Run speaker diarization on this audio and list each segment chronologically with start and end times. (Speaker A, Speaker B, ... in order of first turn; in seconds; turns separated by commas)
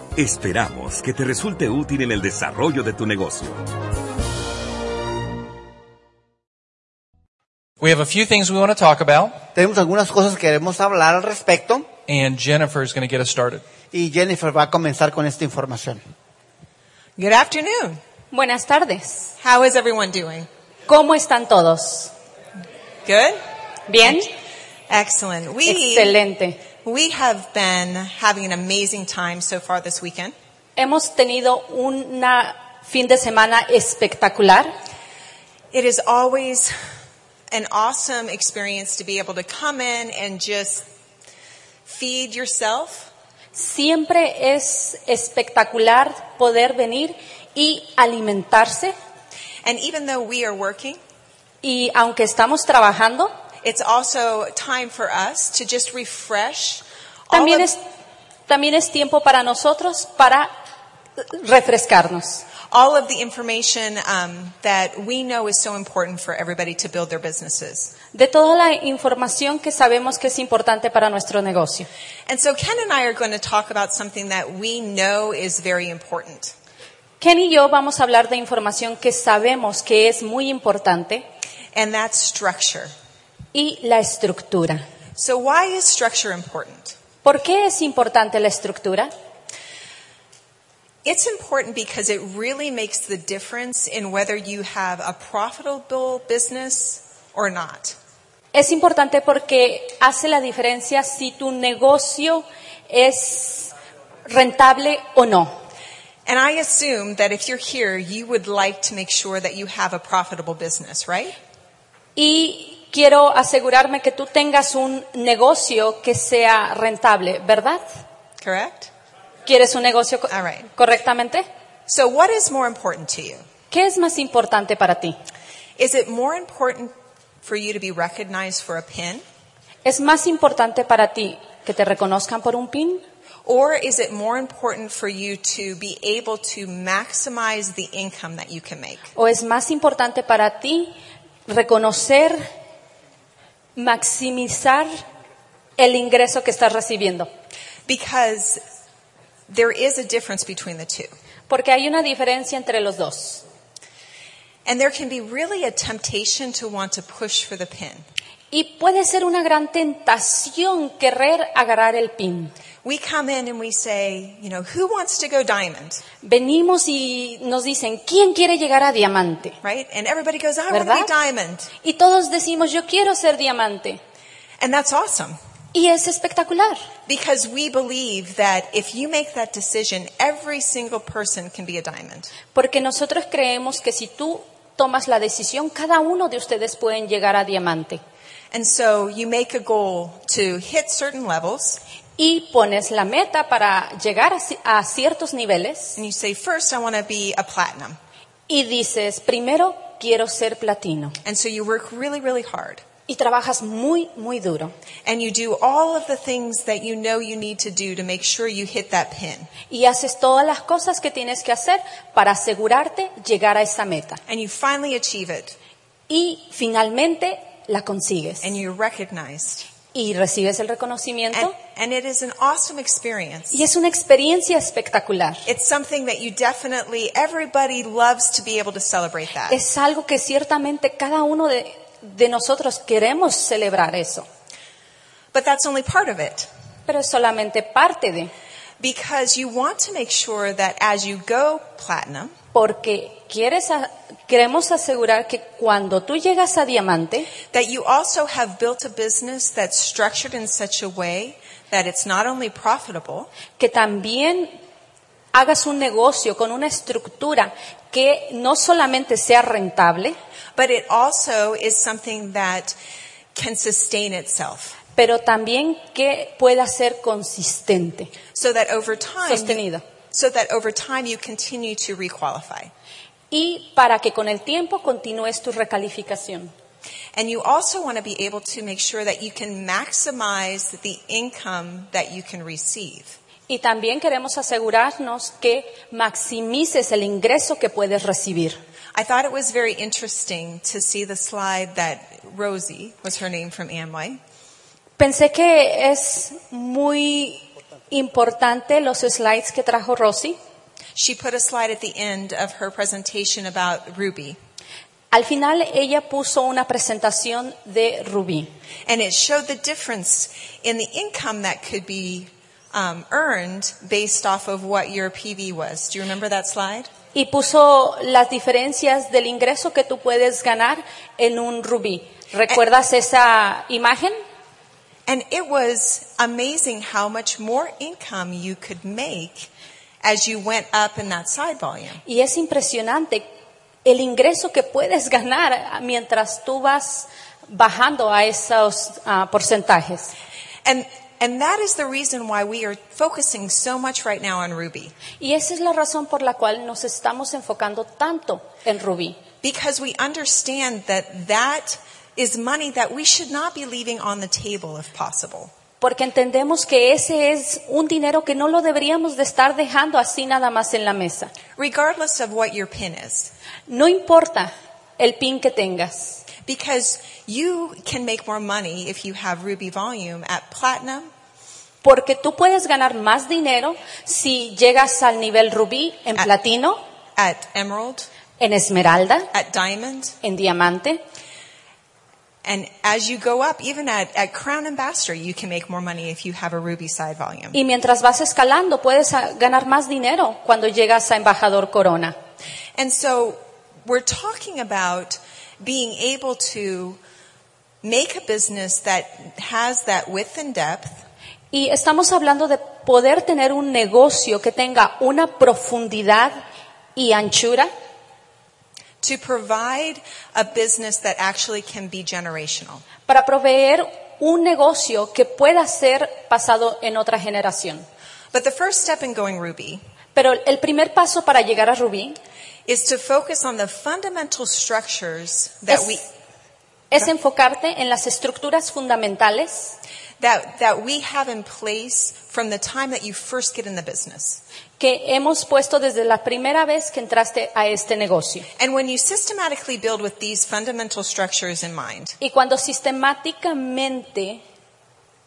Speaker A: 0.2-3.7, Speaker B: 7.8-9.4, Speaker C: 9.6-11.9, Speaker B: 12.1-13.6, Speaker C: 13.9-16.0, Speaker D: 17.2-18.0, Speaker E: 18.3-19.3, Speaker D: 19.4-20.5, Speaker E: 20.9-22.1, Speaker D: 23.1-23.4, Speaker E: 23.9-24.3, Speaker D: 24.9-26.2, Speaker E: 25.7-26.6, Speaker D: 26.8-30.4, Speaker E: 30.8-34.7, Speaker D: 35.7-36.7, Speaker D: 37.5-40.9, Speaker D: 41.9-43.1, Speaker E: 43.5-49.0, Speaker D: 49.6-51.0, Speaker E: 51.6-53.3, Speaker D: 53.6-57.7, Speaker E: 57.3-57.8, Speaker E: 58.5-60.5, Speaker E: 61.3-62.5, Speaker D: 62.7-68.0, Speaker E: 68.1-71.9, Speaker D: 72.3-76.5, Speaker E: 77.2-81.2, Speaker D: 81.7-82.9, Speaker E: 83.5-84.8, Speaker D: 85.2-87.0, Speaker E: 87.2-89.1, Speaker D: 91.0-98.0, Speaker E: 98.5-103.7, Speaker E: 104.3-105.5, Speaker D: 106.3-111.4, Speaker E: 112.2-117.8, Speaker D: 118.4-118.9, Speaker E: 119.5-121.5, Speaker D: 120.3-120.7, Speaker D: 121.9-123.4, Speaker E: 123.7-125.2, Speaker D: 125.8-129.2, Speaker E: 129.8-133.0, Speaker D: 133.4-139.0, Speaker E: 139.2-140.9, Speaker E: 141.5-142.4, Speaker E: 143.8-144.9, Speaker E: 145.8-147.3, Speaker D: 147.9-148.6, Speaker D: 149.5-151.1, Speaker E: 151.5-153.4, Speaker D: 154.7-158.1, Speaker E: 158.5-162.5, Speaker D: 162.8-166.0, Speaker E: 166.2-169.6, Speaker D: 169.6-171.7, Speaker E: 170.7-171.1, Speaker E: 171.8-174.0, Speaker D: 174.6-175.4, Speaker E: 175.7-176.8, Speaker D: 177.1-182.3, Speaker E: 182.5-188.0, Speaker D: 188.5-191.8, Speaker E: 192.2-196.0, Speaker D: 196.0-198.0, Speaker E: 198.5-201.2, Speaker D: 201.2-202.8, Speaker E: 203.1-204.7, Speaker D: 205.1-209.5, Speaker E: 209.7-214.2, Speaker D: 214.3-215.6, Speaker E: 216.1-218.4, Speaker D: 218.4-219.7, Speaker E: 219.9-221.5, Speaker D: 221.3-223.6, Speaker E: 223.5-225.5, Speaker D: 225.5-229.6, Speaker E: 229.5-234.3, Speaker D: 235.3-236.5, Speaker E: 236.9-238.3, Speaker D: 238.8-242.3, Speaker E: 242.5-247.3, Speaker D: 247.5-253.3, Speaker E: 253.6-254.5, Speaker E: 255.3-260.2, Speaker D: 260.6-262.8, Speaker D: 263.4-264.8, Speaker E: 265.0-268.1, Speaker D: 268.4-269.6, Speaker E: 269.3-269.8, Speaker D: 270.1-272.7, Speaker E: 273.3-276.5, Speaker D: 277.1-283.2, Speaker E: 283.5-288.6, Speaker D: 288.9-294.2, Speaker E: 295.0-300.4, Speaker D: 300.9-304.4, Speaker E: 305.1-308.5, Speaker D: 308.9-316.9, Speaker E: 317.1-324.2, Speaker D: 325.1-329.5, Speaker D: 330.0-332.0, Speaker E: 332.1-333.2, Speaker E: 333.9-340.1, Speaker D: 340.6-344.9, Speaker E: 345.2-349.2, Speaker D: 349.4-355.5, Speaker E: 355.8-361.3, Speaker D: 361.6-363.3, Speaker E: 363.7-366.2, Speaker D: 366.5-371.1, Speaker E: 371.8-376.8, Speaker D: 377.2-378.1, Speaker E: 378.4-379.3, Speaker D: 379.3-380.2, Speaker E: 380.2-381.0, Speaker D: 382.4-387.6, Speaker E: 387.5-392.1, Speaker D: 392.8-397.0, Speaker D: 397.8-401.0, Speaker E: 401.5-406.4, Speaker E: 407.0-407.7, Speaker D: 409.0-412.9, Speaker E: 413.1-417.9, Speaker D: 418.3-419.8, Speaker E: 420.1-422.2, Speaker D: 422.7-426.1, Speaker E: 425.7-426.0, Speaker E: 426.9-429.8, Speaker D: 430.2-434.4, Speaker E: 434.8-438.5, Speaker D: 438.6-442.2, Speaker E: 442.2-444.4